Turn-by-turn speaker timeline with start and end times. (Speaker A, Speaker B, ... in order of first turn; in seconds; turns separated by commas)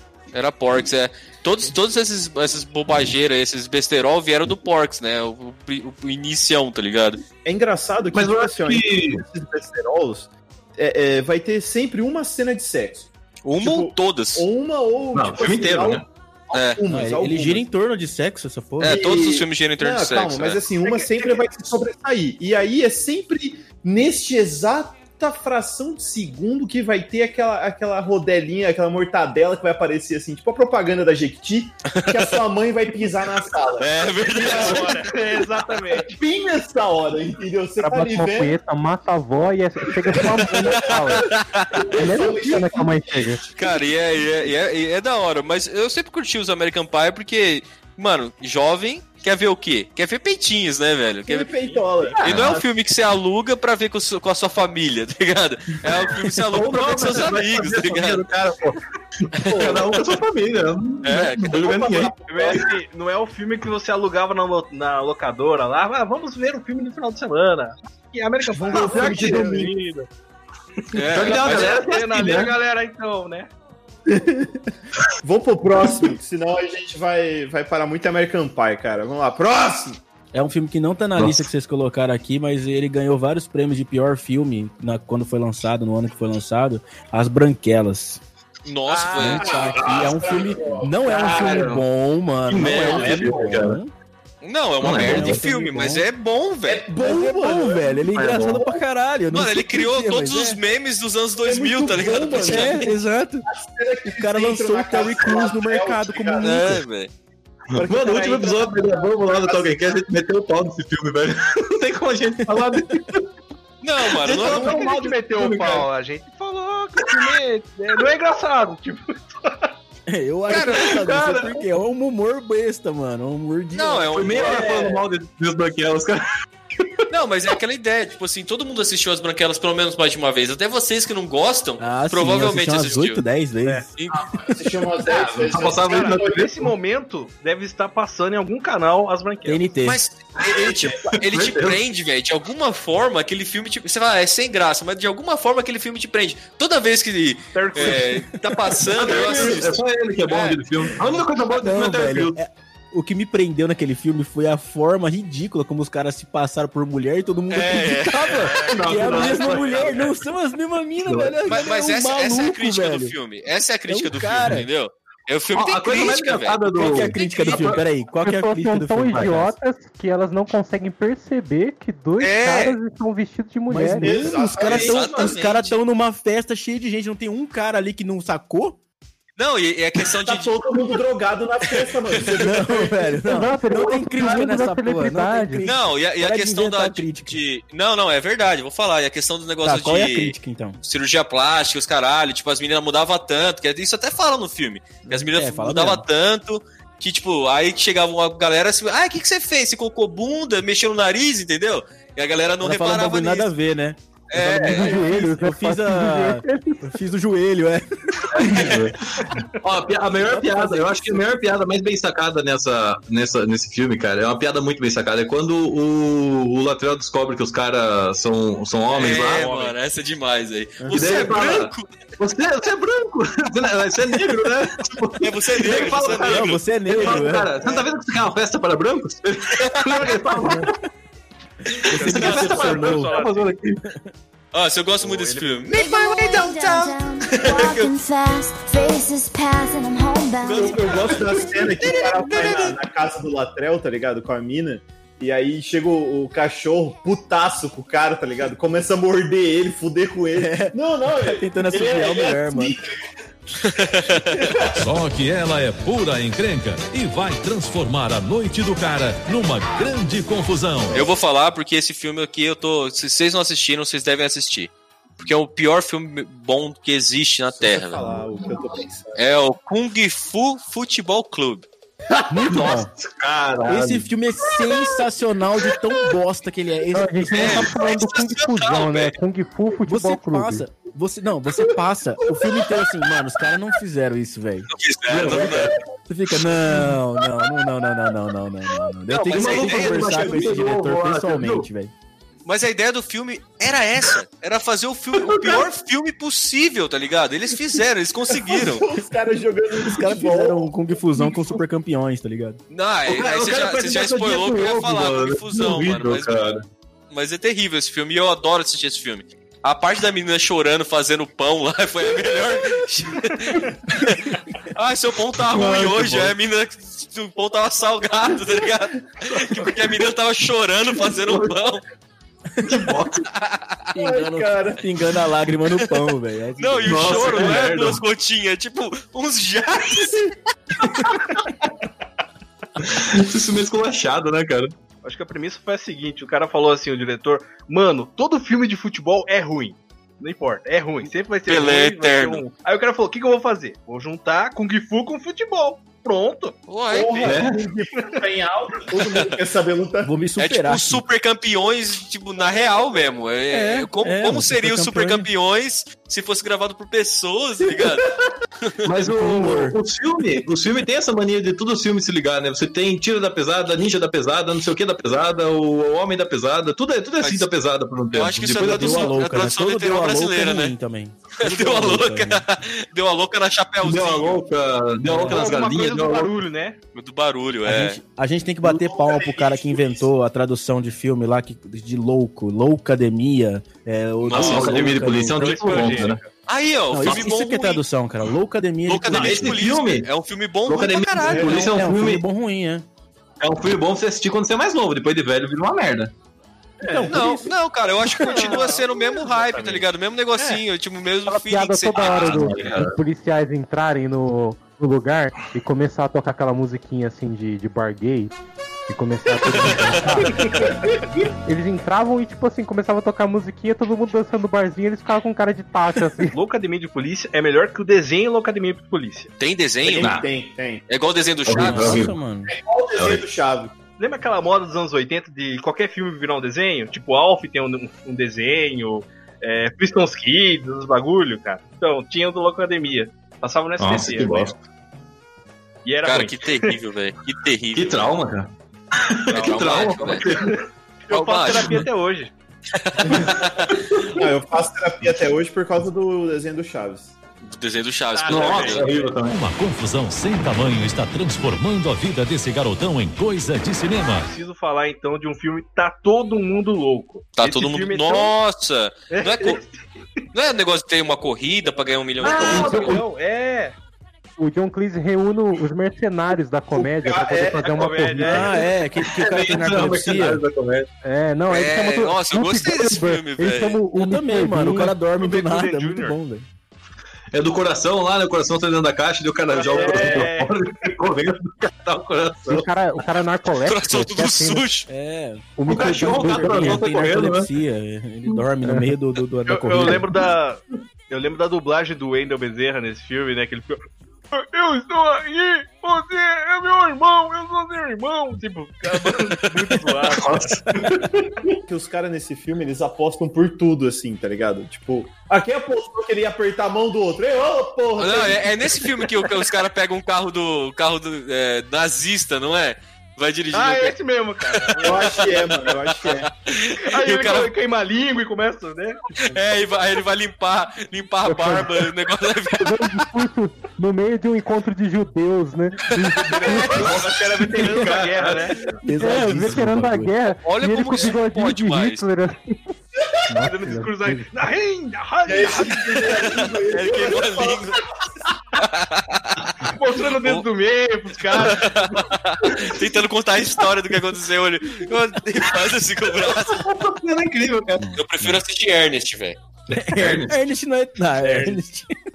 Speaker A: 0.3-7.2, Speaker B: 7.4-17.6, Speaker C: 8.1-9.2, Speaker A: 13.4-14.5, Speaker C: 15.1-16.1, Speaker A: 16.5-16.8, Speaker D: 16.9-19.0, Speaker A: 18.8-20.6, Speaker B: 18.8-35.0, Speaker A: 31.9-32.4, Speaker A: 33.8-36.0, Speaker E: 34.3-36.2, Speaker B: 36.1-38.6, Speaker F: 37.8-41.3, Speaker B: 39.9-43.0, Speaker A: 40.7-41.8, Speaker F: 41.9-43.4, Speaker A: 43.5-51.6, Speaker B: 51.3-52.6, Speaker C: 52.2-52.6, Speaker A: 52.2-58.2, Speaker C: 56.5-62.6, Speaker A: 59.4-60.1, Speaker A: 61.0-61.6, Speaker B: 61.6-62.6, Speaker E: 61.6-70.1, Speaker B: 68.5-69.7, Speaker C: 68.7-69.5, Speaker A: 70.9-71.8, Speaker C: 71.1-72.5, Speaker E: 71.2-73.5, Speaker B: 74.1-74.7, Speaker B: 75.2-80.0, Speaker D: 80.3-88.2, Speaker C: 81.2-81.5, Speaker A: 88.7-89.7, Speaker B: 88.9-91.6, Speaker D: 89.1-93.9, Speaker C: 89.8-90.2, Speaker C: 91.1-91.8, Speaker C: 92.5-93.8, Speaker A: 94.4-96.8, Speaker C: 94.8-95.4, Speaker D: 94.9-96.0, Speaker B: 96.7-97.9, Speaker D: 96.9-100.6, Speaker C: 98.0-98.8, Speaker A: 99.3-102.9, Speaker B: 101.4-102.9, Speaker D: 102.3-103.5, Speaker B: 103.5-106.8, Speaker D: 104.0-106.7, Speaker A: 106.4-107.1, Speaker C: 107.7-113.2, Speaker D: 107.8-108.6, Speaker B: 109.1-109.9, Speaker D: 112.4-112.9, Speaker A: 113.8-114.9, Speaker E: 114.2-119.7, Speaker C: 114.3-115.9, Speaker D: 120.1-124.4, Speaker A: 120.5-121.0, Speaker C: 120.9-121.5, Speaker A: 123.7-124.7, Speaker C: 124.1-126.2, Speaker B: 124.3-125.0, Speaker A: 127.1-133.2, Speaker D: 131.8-133.9, Speaker B: 134.1-136.4, Speaker E: 135.0-139.7, Speaker C: 135.4-136.7, Speaker D: 139.4-140.0, Speaker A: 139.8-150.6, Speaker C: 140.4-141.8, Speaker E: 147.5-148.2, Speaker C: 148.9-152.4, Speaker E: 149.2-149.5, Speaker D: 151.5-163.1, Speaker A: 157.5-160.1, Speaker C: 158.5-160.2, Speaker C: 161.0-161.6, Speaker A: 161.5-167.8, Speaker D: 163.9-164.7, Speaker C: 165.5-167.8, Speaker D: 166.7-169.5, Speaker F: 168.2-174.1, Speaker C: 169.1-169.4, Speaker A: 172.2-172.8, Speaker D: 173.7-178.8, Speaker B: 174.0-175.4, Speaker A: 174.6-175.8, Speaker A: 179.4-180.6, Speaker B: 180.1-184.3, Speaker A: 181.8-182.4, Speaker D: 182.4-187.4, Speaker F: 183.2-185.7, Speaker A: 185.6-203.5, Speaker D: 189.6-190.8, Speaker D: 195.1-196.0, Speaker D: 202.6-208.9, Speaker A: 204.3-205.2, Speaker F: 204.8-207.0, Speaker C: 208.3-219.5, Speaker D: 210.3-211.2, Speaker A: 218.9-221.9, Speaker E: 219.4-219.7, Speaker B: 220.8-221.3, Speaker C: 220.9-230.7, Speaker A: 225.2-226.7, Speaker D: 226.3-227.5, Speaker A: 229.7-230.2, Speaker D: 231.7-233.2, Speaker C: 232.0-233.8, Speaker E: 232.0-233.5, Speaker D: 233.8-234.1, Speaker A: 234.5-237.9, Speaker E: 235.0-235.7, Speaker G: 235.7-242.7, Speaker A: 240.4-242.7, Speaker B: 240.5-253.0, Speaker D: 250.4-250.7, Speaker D: 251.2-252.8, Speaker A: 253.6-254.7, Speaker H: 254.8-261.0, Speaker A: 260.9-268.1, Speaker B: 267.6-269.2, Speaker A: 269.1-271.7, Speaker D: 272.3-272.9, Speaker C: 272.4-274.1, Speaker D: 273.7-277.7, Speaker F: 276.9-280.6, Speaker A: 277.3-279.2, Speaker D: 279.9-284.7, Speaker A: 284.7-285.7, Speaker C: 285.1-285.8, Speaker D: 285.2-285.5, Speaker D: 286.1-291.9, Speaker C: 289.1-291.7, Speaker A: 289.1-290.5, Speaker A: 292.4-298.9, Speaker C: 295.2-295.6, Speaker B: 298.4-301.2, Speaker D: 299.8-302.6, Speaker A: 302.7-306.3, Speaker C: 303.1-306.6, Speaker A: 307.1-321.8, Speaker C: 315.5-316.3, Speaker C: 321.1-321.5, Speaker C: 322.6-323.3, Speaker A: 323.3-323.8, Speaker D: 323.9-327.6, Speaker B: 323.9-324.8, Speaker A: 326.6-330.3, Speaker C: 326.9-328.0, Speaker C: 331.0-331.4, Speaker C: 332.8-334.7, Speaker E: 335.0-347.3, Speaker A: 341.5-342.4, Speaker A: 346.7-347.3, Speaker B: 346.9-350.1, Speaker C: 347.2-347.6, Speaker A: 349.1-349.4, Speaker D: 350.0-351.0, Speaker A: 350.4-358.1, Speaker D: 353.5-355.3, Speaker A: 358.6-358.9, Speaker C: 358.8-369.1, Speaker D: 359.1-359.8, Speaker A: 367.2-367.5, Speaker A: 368.1-370.7, Speaker D: 368.4-372.4, Speaker A: 371.4-374.4, Speaker C: 373.8-376.3, Speaker D: 375.1-375.4, Speaker E: 375.1-376.8, Speaker A: 376.9-378.0, Speaker D: 377.6-385.9, Speaker B: 378.6-380.1, Speaker A: 384.2-384.7, Speaker C: 384.3-386.2, Speaker E: 384.6-386.3, Speaker A: 386.5-387.8, Speaker D: 386.9-389.6, Speaker A: 388.9-391.7, Speaker C: 389.1-390.1, Speaker C: 390.6-392.2, Speaker B: 391.2-391.7, Speaker D: 391.5-392.9, Speaker C: 393.4-396.1, Speaker B: 396.8-397.1, Speaker D: 396.8-397.5, Speaker A: 397.1-402.8, Speaker E: 398.2-399.9, Speaker F: 401.3-408.4, Speaker C: 402.0-403.0, Speaker F: 408.9-410.4, Speaker A: 409.5-410.7, Speaker B: 410.1-410.7, Speaker E: 410.3-410.7, Speaker F: 411.4-416.4, Speaker E: 416.3-419.3, Speaker A: 419.4-420.1, Speaker B: 419.8-420.8, Speaker C: 420.0-420.3, Speaker A: 420.9-422.0, Speaker C: 421.4-422.1, Speaker D: 421.5-422.5, Speaker B: 422.4-423.7, Speaker C: 422.9-423.2, Speaker E: 424.0-434.5, Speaker C: 433.8-434.5, Speaker E: 435.8-436.8, Speaker A: 436.0-438.1, Speaker C: 437.7-440.6, Speaker A: 439.3-440.4, Speaker E: 440.1-442.3, Speaker A: 441.1-441.9, Speaker A: 442.7-444.1, Speaker B: 444.1-447.1, Speaker A: 447.4-448.9, Speaker E: 448.1-449.1, Speaker C: 448.3-449.4, Speaker H: 449.2-454.2, Speaker E: 454.1-458.3, Speaker A: 457.4-459.6, Speaker E: 459.1-460.1, Speaker A: 460.3-463.0, Speaker E: 462.2-463.8, Speaker C: 462.2-463.0, Speaker F: 464.4-468.6, Speaker B: 466.7-467.9, Speaker E: 467.5-468.6, Speaker D: 468.2-470.4, Speaker C: 469.1-470.9, Speaker F: 471.0-475.0, Speaker A: 471.5-473.8, Speaker D: 473.9-476.5, Speaker E: 475.1-476.1, Speaker C: 477.3-482.7, Speaker E: 479.5-480.9, Speaker F: 482.4-484.6, Speaker A: 483.6-484.9, Speaker D: 484.9-485.5, Speaker F: 485.6-486.9, Speaker C: 485.7-487.5, Speaker D: 486.2-490.0, Speaker E: 489.5-500.5, Speaker A: 498.9-500.1, Speaker C: 500.1-501.5, Speaker B: 501.6-508.9, Speaker A: 508.0-517.5, Speaker E: 513.5-515.5, Speaker B: 514.8-516.3, Speaker E: 516.8-519.3, Speaker A: 519.2-522.8, Speaker F: 521.2-521.8, Speaker F: 522.5-526.9, Speaker E: 526.3-528.8, Speaker A: 526.4-526.9, Speaker C: 526.6-528.7, Speaker D: 528.8-530.1, Speaker F: 528.9-532.6, Speaker A: 530.4-532.1, Speaker F: 533.3-534.3, Speaker E: 533.4-536.1, Speaker B: 535.2-537.8, Speaker A: 535.9-537.8, Speaker A: 538.6-540.5, Speaker E: 539.6-541.9, Speaker A: 541.1-546.6, Speaker C: 546.1-547.9, Speaker D: 547.8-548.4, Speaker A: 548.0-549.4, Speaker D: 549.7-551.9, Speaker C: 549.7-550.4